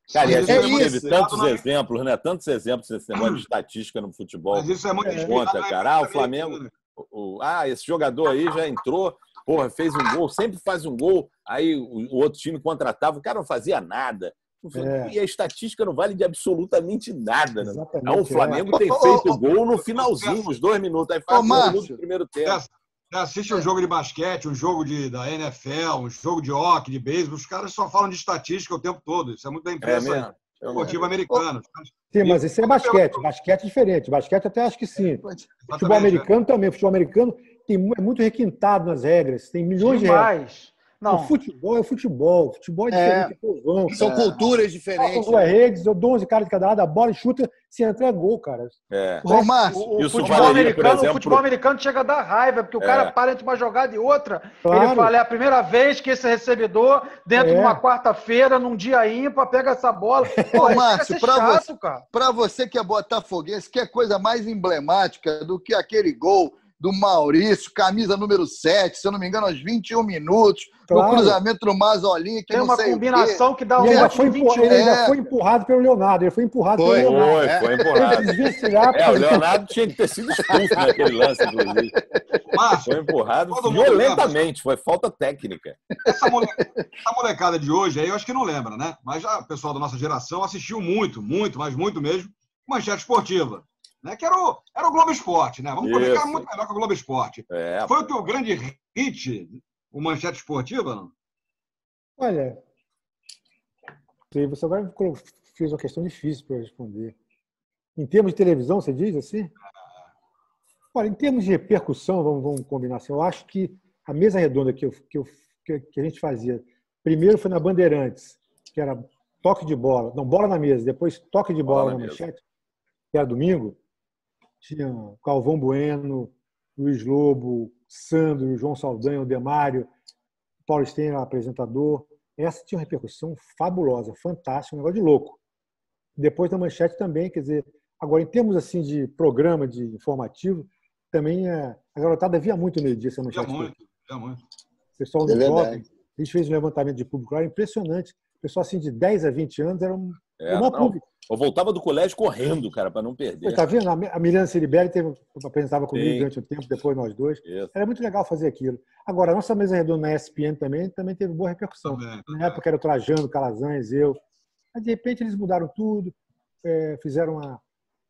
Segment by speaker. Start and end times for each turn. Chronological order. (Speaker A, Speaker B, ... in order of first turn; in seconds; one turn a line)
Speaker A: 0.1-22.6
Speaker B: 0.2-1.6
Speaker C: 0.2-1.2
Speaker B: 3.1-3.4
Speaker B: 4.5-6.7
Speaker D: 5.0-5.3
Speaker D: 14.7-15.1
Speaker D: 17.6-18.7
Speaker E: 18.7-19.4
Speaker B: 19.2-20.5
Speaker E: 21.3-22.0
Speaker B: 22.4-33.2
Speaker A: 29.8-31.1
Speaker E: 30.8-31.4
Speaker D: 32.1-40.3
Speaker E: 35.2-35.5
Speaker B: 35.6-36.3
Speaker F: 39.8-41.4
Speaker D: 41.1-44.0
Speaker C: 42.9-43.3
Speaker C: 43.9-45.5
Speaker E: 44.0-44.5
Speaker D: 45.0-48.8
Speaker A: 48.9-49.3
Speaker E: 49.2-50.8
Speaker F: 49.7-62.0
Speaker A: 49.9-51.4
Speaker A: 52.8-53.1
Speaker D: 54.6-55.1
Speaker D: 57.4-57.8
Speaker D: 60.4-60.8
Speaker E: 60.6-74.1
Speaker D: 70.9-71.4
Speaker F: 72.5-74.9
Speaker D: 73.8-79.7
Speaker E: 74.7-75.2
Speaker C: 76.8-78.3
Speaker A: 76.9-78.3
Speaker A: 78.9-81.9
Speaker C: 80.5-80.9
Speaker B: 82.5-84.4
Speaker A: 82.8-85.8
Speaker B: 86.0-101.1
Speaker E: 86.1-86.9
Speaker A: 95.8-96.5
Speaker A: 97.5-98.0
Speaker D: 102.2-102.6
Speaker D: 104.3-107.2
Speaker D: 108.0-109.5
Speaker D: 110.9-122.4
Speaker A: 121.7-122.2
Speaker D: 123.1-123.8
Speaker D: 124.6-129.9
Speaker D: 130.7-135.4
Speaker D: 136.2-143.7
Speaker B: 143.3-144.4
Speaker D: 145.0-151.1
Speaker C: 145.3-145.8
Speaker A: 150.4-153.6
Speaker D: 153.4-164.2
Speaker A: 155.9-156.3
Speaker A: 157.4-157.7
Speaker B: 161.8-162.6
Speaker D: 164.7-167.6